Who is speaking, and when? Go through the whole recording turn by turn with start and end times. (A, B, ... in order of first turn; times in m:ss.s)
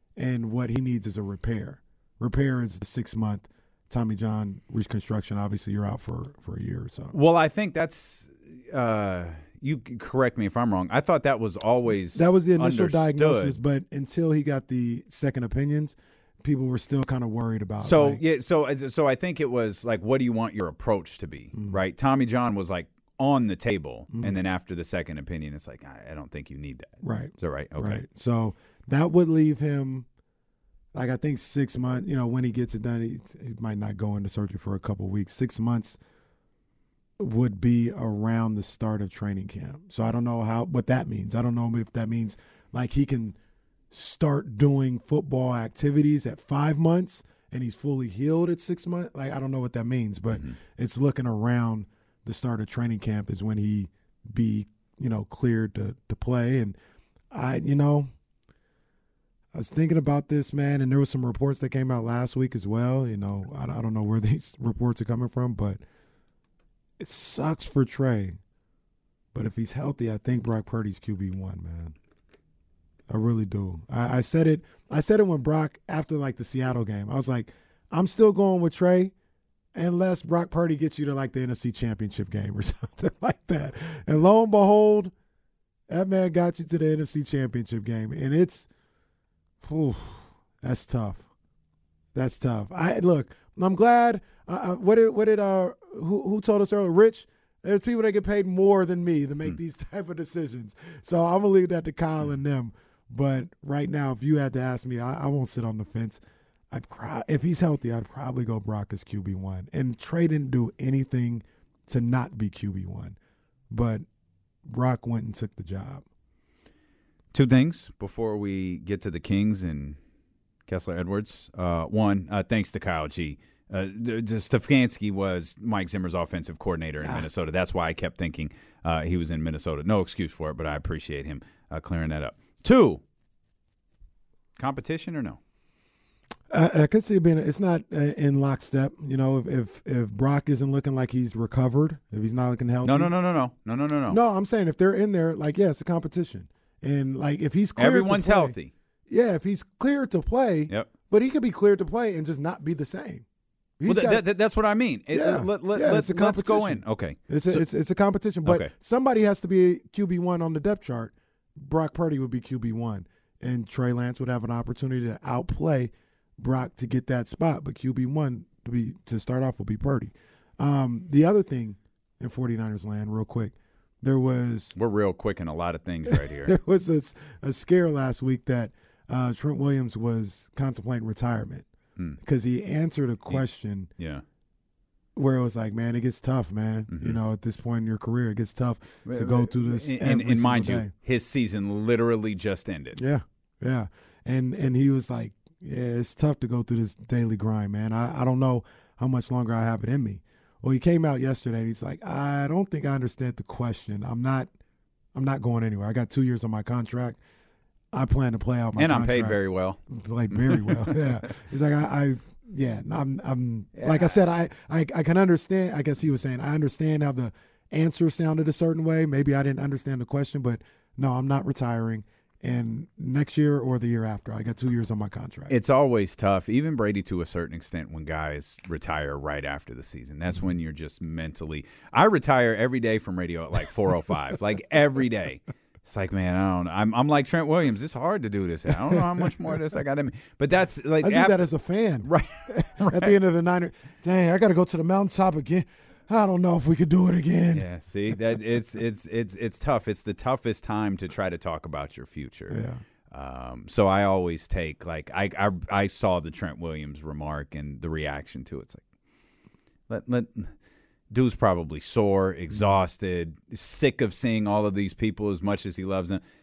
0:00.2-0:07.2 A
0:07.1-0:13.6 B
0:12.1-0:18.2 A
0:17.8-0:28.0 B
0:21.5-0:21.8 A
0:24.1-0:24.4 A
0:27.0-0:30.1 A
0:30.9-0:36.0 A
0:37.2-0:43.4 A
0:43.9-0:56.8 A
0:50.3-0:50.6 B
0:57.3-0:58.1 A
0:59.5-1:05.8 A
1:07.0-1:08.4 A
1:09.3-1:12.0 A
1:13.1-1:19.1 A
1:19.7-1:25.1 A
1:25.9-1:28.7 A
1:29.6-1:31.3 A
1:32.1-1:53.2 A
1:53.7-1:54.1 A
1:54.6-1:56.0 A
1:57.3-2:00.0 B
2:00.7-2:13.0 B
2:14.6-2:15.4 B
2:16.5-2:23.1 A
2:22.8-2:24.2 B
2:24.1-2:28.6 A
2:27.8-2:28.7 B
2:29.1-2:33.2 A
2:33.8-2:34.2 A
2:33.9-2:37.6 B
2:35.1-2:54.7 A
2:38.4-2:38.7 B
2:54.8-2:56.6 B
2:56.1-3:01.7 A
3:02.2-3:03.9 A
3:04.0-3:04.2 B
3:05.2-3:10.9 A
3:06.9-3:07.2 B
3:09.1-3:13.0 B
3:13.0-3:24.5 A
3:25.1-3:27.2 A
3:27.9-3:45.5 A
3:28.8-3:29.8 B
3:30.3-3:31.0 B
3:33.8-3:34.2 B
3:45.5-4:01.4 B
3:58.9-3:59.3 A
4:01.0-4:07.7 A
4:02.0-4:03.1 B
4:07.5-4:18.8 B
4:12.5-4:12.8 A
4:19.9-4:20.5 B
4:21.1-4:26.2 B